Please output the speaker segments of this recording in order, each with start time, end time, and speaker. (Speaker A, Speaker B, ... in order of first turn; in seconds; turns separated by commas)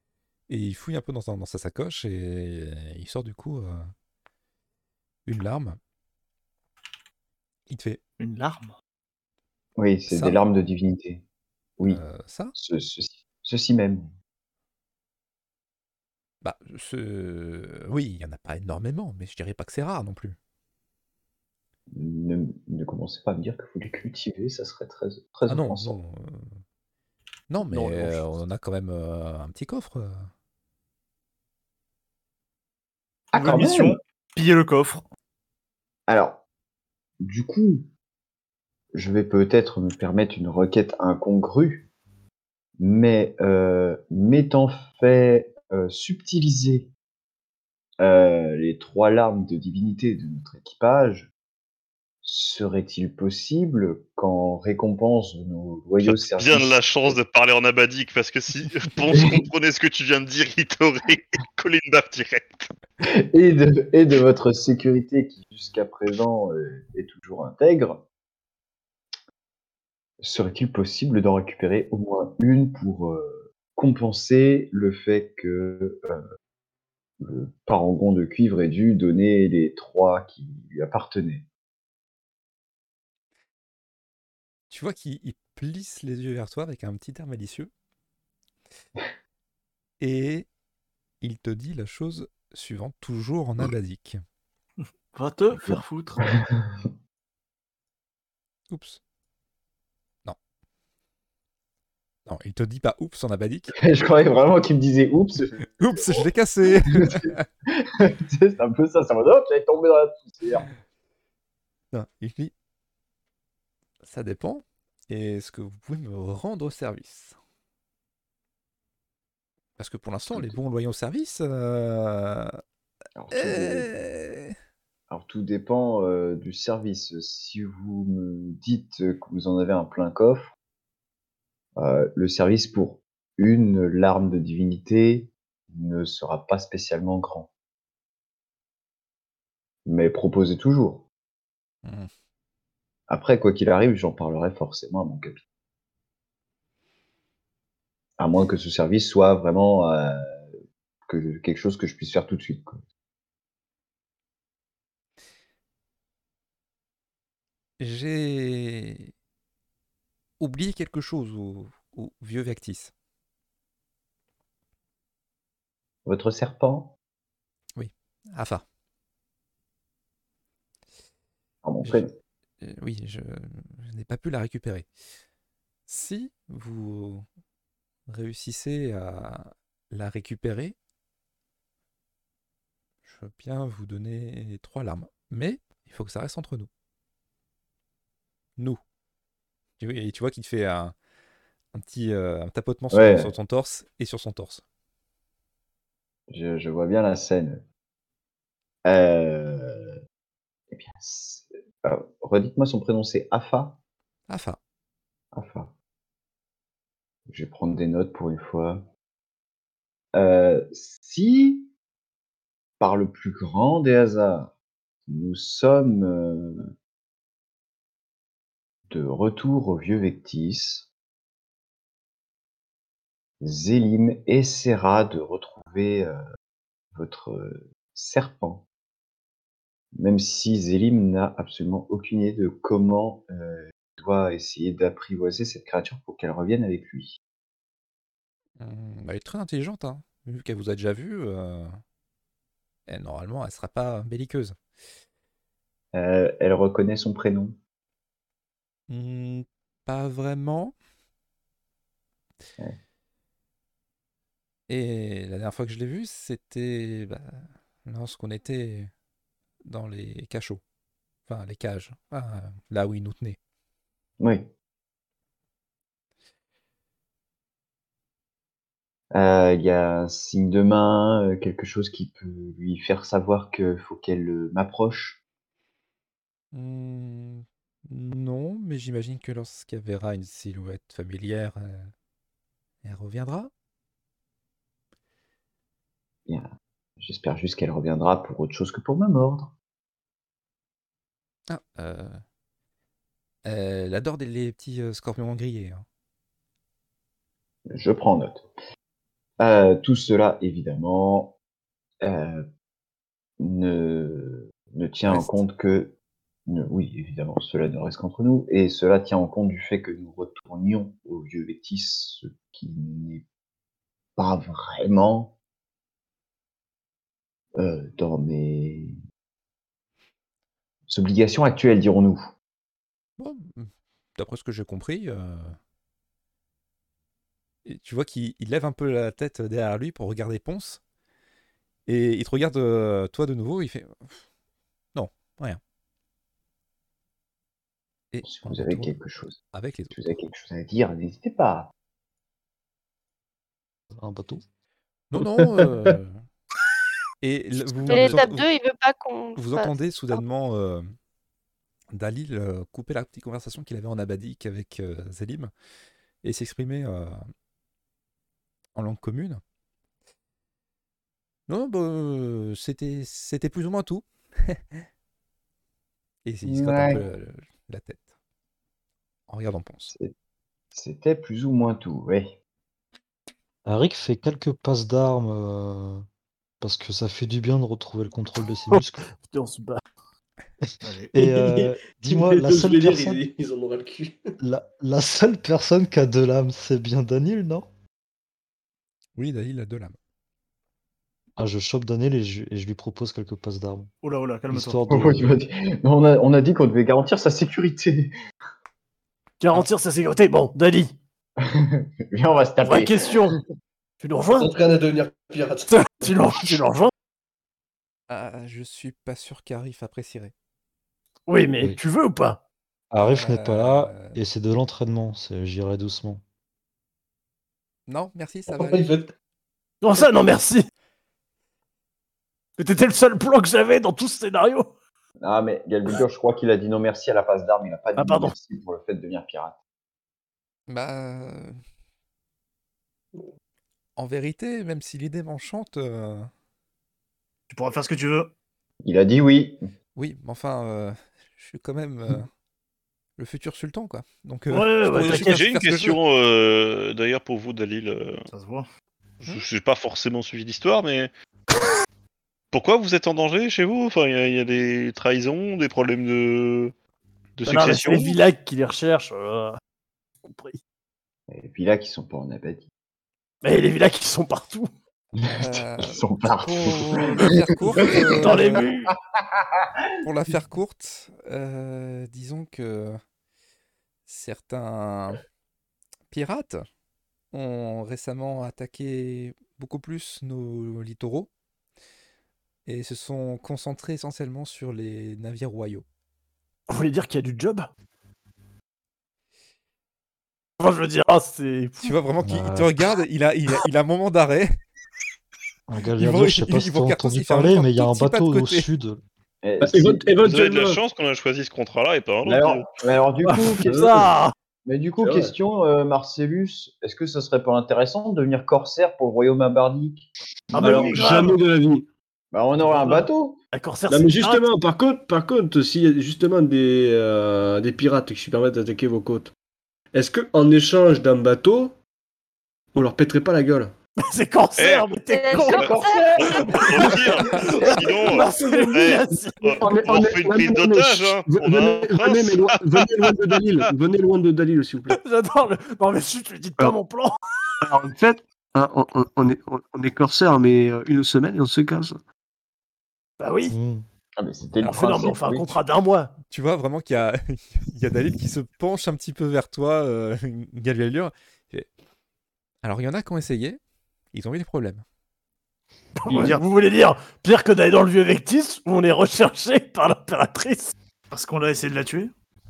Speaker A: 0.5-3.9, Speaker A: 5.3-5.8, Speaker A: 7.7-8.0, Speaker B: 8.2-8.7, Speaker C: 9.8-11.2, Speaker A: 10.1-10.4, Speaker A: 11.9-12.6, Speaker C: 12.6-14.1, Speaker A: 16.4-20.4, Speaker C: 21.9-26.0, Speaker A: 25.5-26.6, Speaker A: 27.5-30.3, Speaker C: 27.6-28.3, Speaker C: 33.3-34.0, Speaker B: 33.3-35.0, Speaker C: 36.1-36.4, Speaker C: 37.2-37.9, Speaker C: 38.9-41.9, Speaker C: 42.8-46.9, Speaker C: 48.0-51.3, Speaker C: 52.2-57.2, Speaker D: 56.0-62.7, Speaker C: 59.1-59.4, Speaker C: 63.0-68.0, Speaker C: 70.2-76.2, Speaker C: 77.2-81.5, Speaker A: 84.7-87.7, Speaker A: 90.0-90.5, Speaker A: 91.2-94.2, Speaker B: 95.1-96.3, Speaker C: 96.6-96.9, Speaker A: 98.7-99.0, Speaker A: 102.3-103.8, Speaker C: 103.8-106.3, Speaker A: 105.8-107.4, Speaker C: 106.9-110.7, Speaker A: 111.9-112.5, Speaker A: 114.0-117.3, Speaker A: 119.8-122.6, Speaker C: 120.3-120.6, Speaker C: 123.2-123.9, Speaker A: 123.3-124.5, Speaker C: 125.1-130.5, Speaker C: 131.8-137.5, Speaker C: 139.9-141.1, Speaker A: 141.8-142.1, Speaker C: 143.1-145.4, Speaker C: 148.2-150.5, Speaker C: 151.1-152.8, Speaker A: 157.8-159.1, Speaker A: 160.4-162.9, Speaker C: 166.1-166.9, Speaker A: 167.8-168.6, Speaker C: 171.6-172.1, Speaker A: 172.6-174.9, Speaker A: 175.9-177.2, Speaker A: 178.1-180.8, Speaker A: 183.1-186.7, Speaker A: 189.8-190.9, Speaker A: 191.7-194.6, Speaker C: 192.9-193.3, Speaker C: 196.3-197.6, Speaker C: 198.8-199.9, Speaker C: 200.7-203.8, Speaker A: 204.3-204.6, Speaker C: 205.3-205.7, Speaker C: 207.3-208.9, Speaker C: 210.2-211.7, Speaker C: 212.8-214.5, Speaker C: 215.1-216.7, Speaker C: 218.9-220.9, Speaker C: 223.4-226.2, Speaker C: 226.9-228.7, Speaker C: 229.9-237.2, Speaker A: 238.6-241.8, Speaker A: 242.9-244.6, Speaker C: 245.9-247.6, Speaker A: 248.9-250.7, Speaker A: 254.7-258.9, Speaker A: 259.6-260.6, Speaker A: 261.3-263.4, Speaker C: 264.2-264.5, Speaker C: 269.1-275.2, Speaker A: 276.5-281.9, Speaker A: 282.8-283.5, Speaker C: 287.0-289.5, Speaker A: 291.5-292.2, Speaker A: 293.4-295.9, Speaker C: 297.7-298.5, Speaker C: 299.4-301.4, Speaker C: 302.0-302.4, Speaker C: 303.4-305.9, Speaker A: 305.1-305.4, Speaker C: 306.5-313.2, Speaker C: 314.2-315.4, Speaker C: 317.6-318.9, Speaker C: 320.9-322.3, Speaker A: 323.2-325.6, Speaker A: 327.6-330.8, Speaker A: 331.9-334.1, Speaker A: 334.9-335.6, Speaker A: 338.1-338.9, Speaker C: 338.2-339.4, Speaker A: 339.5-339.9, Speaker C: 339.9-341.7, Speaker E: 344.0-344.4, Speaker A: 345.1-346.2, Speaker F: 345.2-345.9, Speaker A: 347.2-348.5, Speaker F: 347.9-348.2, Speaker G: 347.9-350.2, Speaker A: 349.4-350.9, Speaker A: 351.9-355.5, Speaker A: 356.2-357.2, Speaker A: 358.7-359.4, Speaker A: 361.5-364.8, Speaker A: 366.2-368.1, Speaker C: 366.4-367.0, Speaker A: 369.3-369.9, Speaker C: 370.7-372.4, Speaker E: 373.7-376.0, Speaker E: 376.6-379.1, Speaker H: 378.7-379.8, Speaker B: 380.8-381.1, Speaker E: 381.1-383.2, Speaker F: 381.2-384.3, Speaker E: 384.4-387.7, Speaker A: 389.2-389.9, Speaker E: 391.4-393.9, Speaker B: 394.0-394.9, Speaker E: 394.5-395.4, Speaker C: 394.9-398.1, Speaker H: 399.4-400.9, Speaker C: 401.4-403.1, Speaker H: 402.6-403.4, Speaker H: 404.0-404.5, Speaker F: 404.4-406.6, Speaker H: 405.7-406.9, Speaker A: 408.1-410.3, Speaker H: 411.3-412.4, Speaker E: 412.9-416.2, Speaker A: 413.1-414.2, Speaker A: 417.9-418.9, Speaker F: 418.5-419.1, Speaker H: 419.8-420.7, Speaker H: 422.6-424.7, Speaker C: 425.2-429.6, Speaker H: 427.9-428.3, Speaker A: 430.7-431.6, Speaker A: 434.0-436.3, Speaker B: 437.5-438.3, Speaker C: 438.8-439.6, Speaker A: 439.9-442.3, Speaker A: 443.2-446.0, Speaker H: 444.5-445.4, Speaker D: 444.9-448.3, Speaker B: 448.3-448.7, Speaker D: 449.3-451.1, Speaker D: 452.5-456.7, Speaker D: 457.4-458.1, Speaker H: 457.5-459.6, Speaker H: 460.2-460.6, Speaker C: 461.3-462.7, Speaker H: 463.4-464.7, Speaker C: 465.2-467.3, Speaker A: 465.4-468.6, Speaker C: 467.8-468.4, Speaker H: 468.1-468.9, Speaker C: 469.1-469.7, Speaker A: 470.0-473.0, Speaker A: 474.1-475.2, Speaker A: 476.1-476.6, Speaker A: 477.3-481.3, Speaker A: 482.6-485.9, Speaker H: 486.7-487.7, Speaker H: 490.6-491.9, Speaker A: 491.8-494.5, Speaker E: 492.2-492.7, Speaker E: 495.7-499.0, Speaker A: 496.0-498.7, Speaker C: 499.4-500.1, Speaker F: 499.6-500.8, Speaker D: 500.2-502.6, Speaker C: 502.2-504.1, Speaker H: 503.2-504.3, Speaker C: 504.6-510.1, Speaker F: 505.0-505.3, Speaker H: 510.5-511.4, Speaker F: 510.6-511.9, Speaker B: 510.7-511.1, Speaker C: 512.3-513.4, Speaker H: 512.6-514.4, Speaker F: 513.9-519.3, Speaker F: 519.9-521.8, Speaker F: 522.7-523.7, Speaker H: 524.0-525.7, Speaker D: 524.6-533.1, Speaker G: 525.1-526.4, Speaker C: 525.6-528.8, Speaker H: 526.2-529.6, Speaker F: 529.6-535.0, Speaker H: 534.9-537.2, Speaker F: 537.6-542.0, Speaker H: 543.2-543.5, Speaker E: 543.5-543.9, Speaker C: 544.2-545.6, Speaker H: 544.6-546.1, Speaker A: 546.3-551.7, Speaker A: 552.6-553.6, Speaker A: 554.1-554.8, Speaker H: 556.0-560.7, Speaker B: 556.1-556.4, Speaker B: 561.1-562.1